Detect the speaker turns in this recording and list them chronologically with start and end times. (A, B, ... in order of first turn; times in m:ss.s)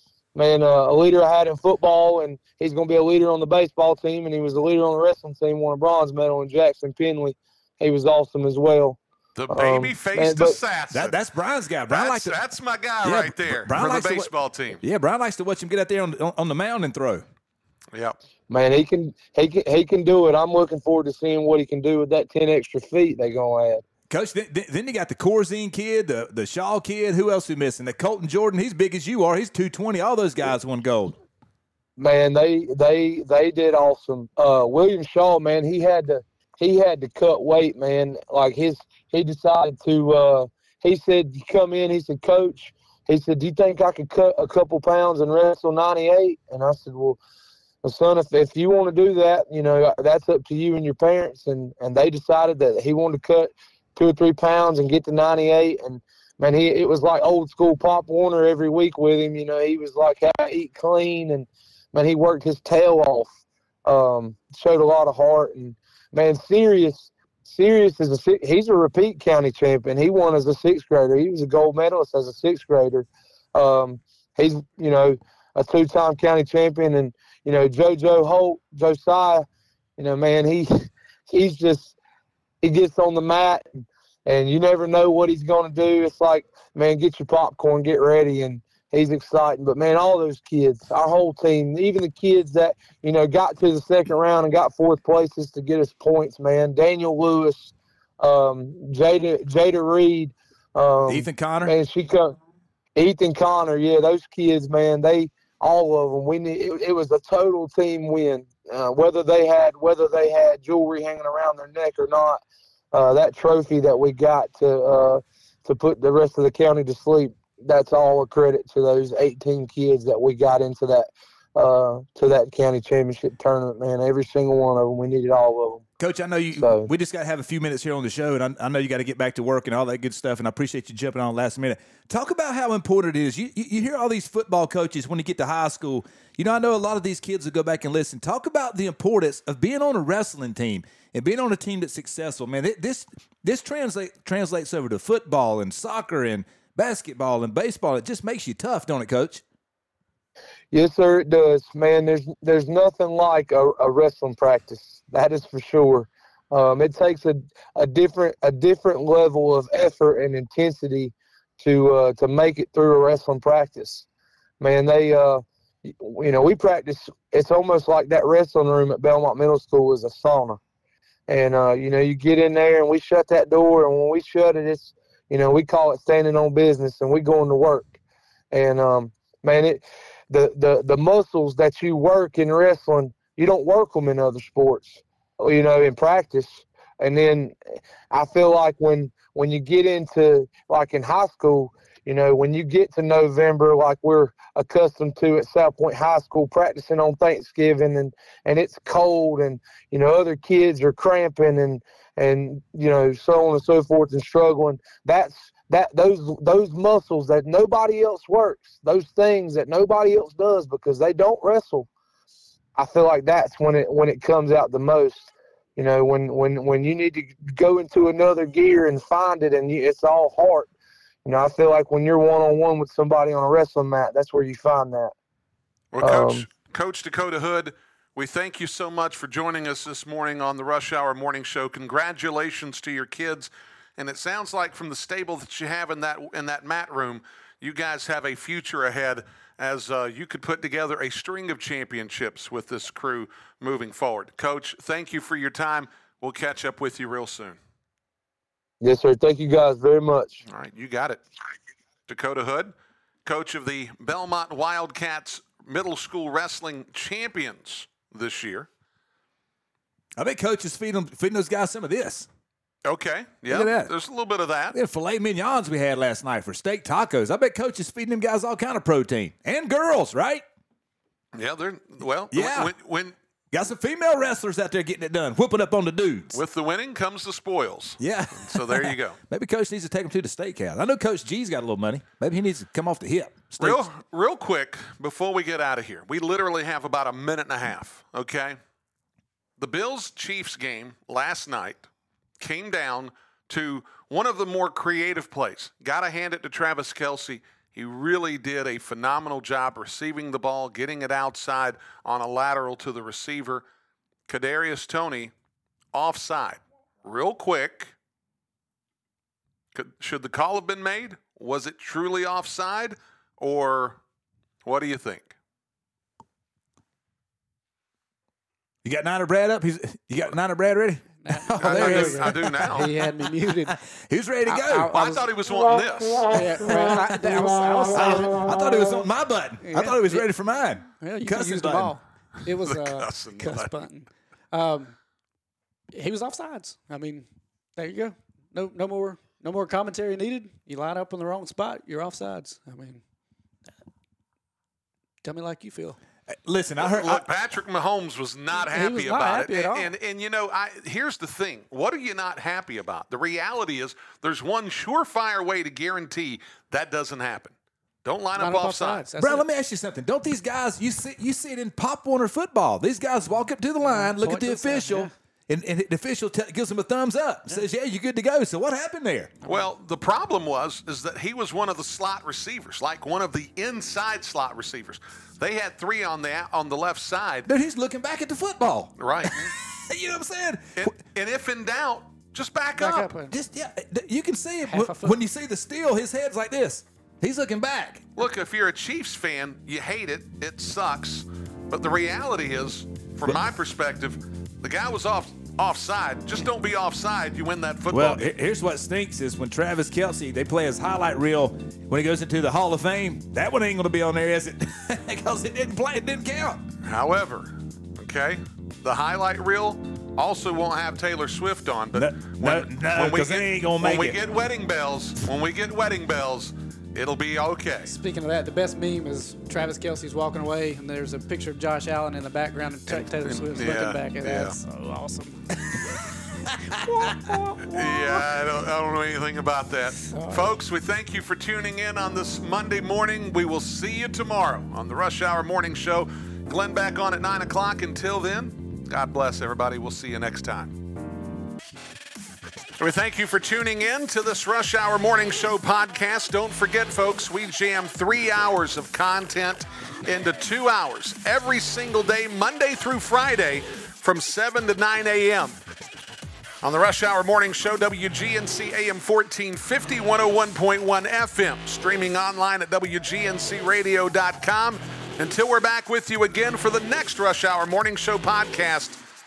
0:00.4-0:09.0 A
0:09.4-0:11.2 B
0:09.5-0:10.6 A
0:10.9-0:12.4 C
0:11.9-0:14.8 B
0:13.0-0:17.2 C
0:17.9-0:18.2 B
0:18.5-0:23.8 A
0:24.1-0:31.2 C
0:32.0-0:47.2 A
0:47.8-1:03.3 A
1:03.8-1:19.4 A
1:20.0-1:22.0 A
1:22.6-1:42.4 A
1:41.1-1:41.8 C
1:43.0-2:05.8 A
2:06.0-2:29.4 C
2:06.6-2:06.9 A
2:30.7-2:44.1 A
2:44.6-2:50.6 A
2:51.3-2:58.0 A
2:58.5-3:07.6 A
3:08.1-3:31.9 A
3:32.8-3:40.7 A
3:41.2-3:45.1 A
3:45.9-4:07.6 B
3:46.0-3:46.5 A
4:08.8-4:10.4 A
4:10.5-4:11.2 B
4:12.1-4:12.7 B
4:13.2-4:18.7 B
4:20.2-4:22.3 C
4:22.9-4:24.8 B
4:23.5-4:23.9 C
4:24.7-4:30.4 C
4:31.4-4:33.2 B
4:32.3-4:32.7 C
4:33.5-4:36.4 C
4:36.3-4:39.2 B
4:38.0-4:43.8 C
4:43.6-4:48.6 B
4:49.6-4:51.9 B
4:52.4-5:03.6 B
5:04.3-5:05.3 B
5:05.9-5:07.9 B
5:09.8-5:14.0 B
5:14.6-5:15.3 B
5:18.8-5:22.9 C
5:21.2-5:23.8 D
5:21.6-5:22.9 B
5:23.8-5:24.9 C
5:24.5-5:25.3 D
5:24.9-5:26.4 B
5:26.3-5:28.3 D
5:27.9-5:32.0 C
5:29.6-5:30.3 D
5:31.0-5:35.0 D
5:32.7-5:33.7 B
5:35.9-5:43.0 D
5:45.2-5:46.0 D
5:46.3-5:47.2 C
5:46.8-5:59.1 B
5:48.6-5:49.9 D
5:58.4-5:59.5 D
5:59.2-6:09.4 C
6:03.8-6:05.1 D
6:09.4-6:09.7 D
6:09.5-6:17.5 B
6:17.5-6:20.9 C
6:19.0-6:19.4 B
6:20.8-6:23.1 B
6:22.8-6:23.4 D
6:23.3-6:28.0 C
6:24.6-6:25.2 D
6:28.2-6:38.3 B
6:37.9-6:46.6 C
6:46.8-6:57.9 B
6:52.0-6:54.2 C
6:57.9-7:05.4 D
7:02.9-7:04.6 B
7:05.7-7:06.1 C
7:06.7-7:07.2 C
7:07.0-7:20.8 B
7:07.2-7:07.8 D
7:10.0-7:10.5 D
7:22.8-7:35.6 B
7:36.6-7:49.0 B